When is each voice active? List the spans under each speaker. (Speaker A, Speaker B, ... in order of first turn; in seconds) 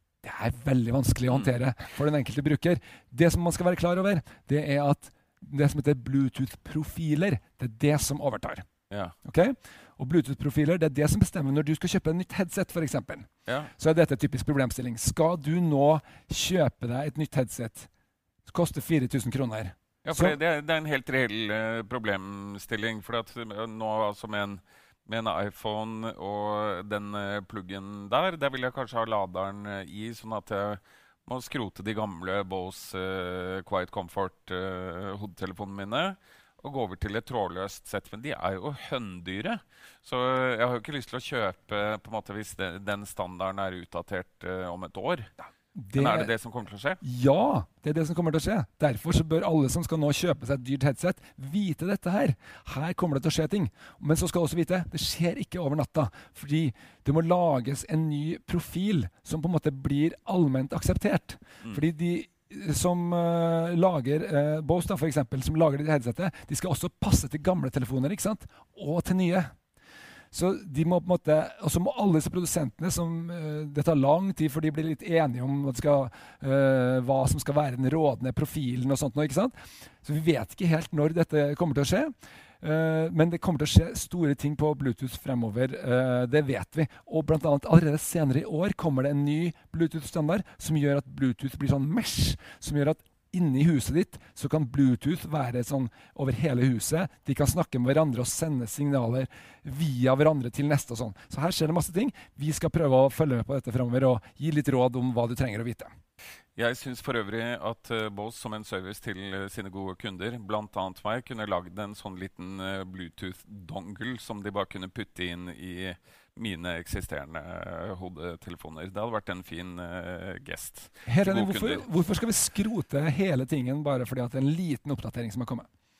Speaker A: 0.2-8.7, 9.2-17.9, 18.4-20.3, 45.8-46.3, 47.0-69.5, 70.3-105.9, 121.1-125.7
Speaker B: 13.4-13.7, 20.0-45.3, 45.9-47.0, 106.5-121.8